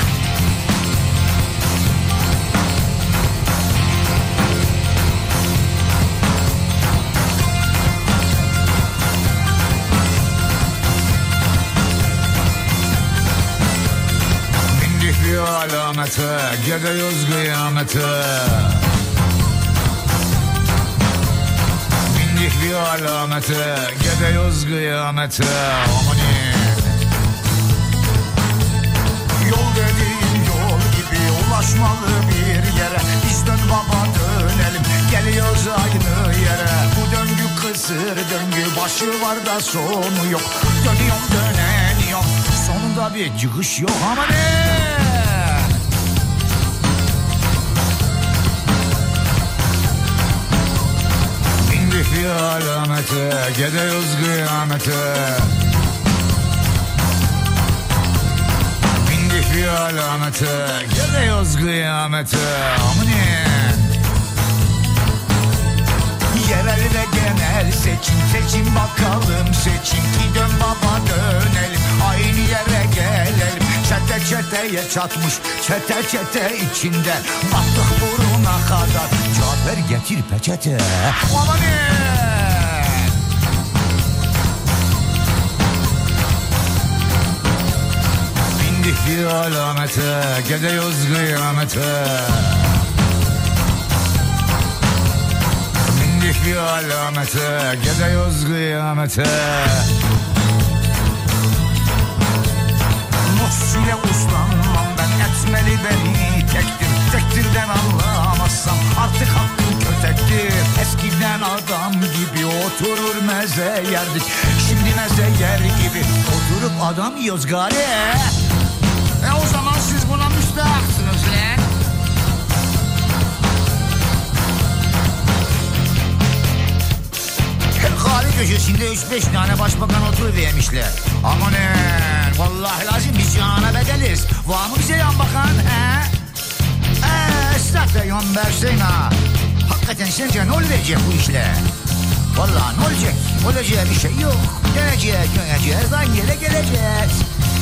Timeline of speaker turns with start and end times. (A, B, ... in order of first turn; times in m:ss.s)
0:14.7-0:18.8 A
0:22.0-0:26.9 A
0:29.4-0:45.7 A
0:51.6-0:55.6 A
0:58.9-1:03.9 A
1:06.3-1:23.1 A
1:28.6-1:32.8 A
1:35.8-1:39.9 A
1:43.3-1:58.3 A
1:59.2-2:01.6 A
2:07.8-2:16.1 A
2:17.0-2:21.6 A
2:22.3-2:27.2 A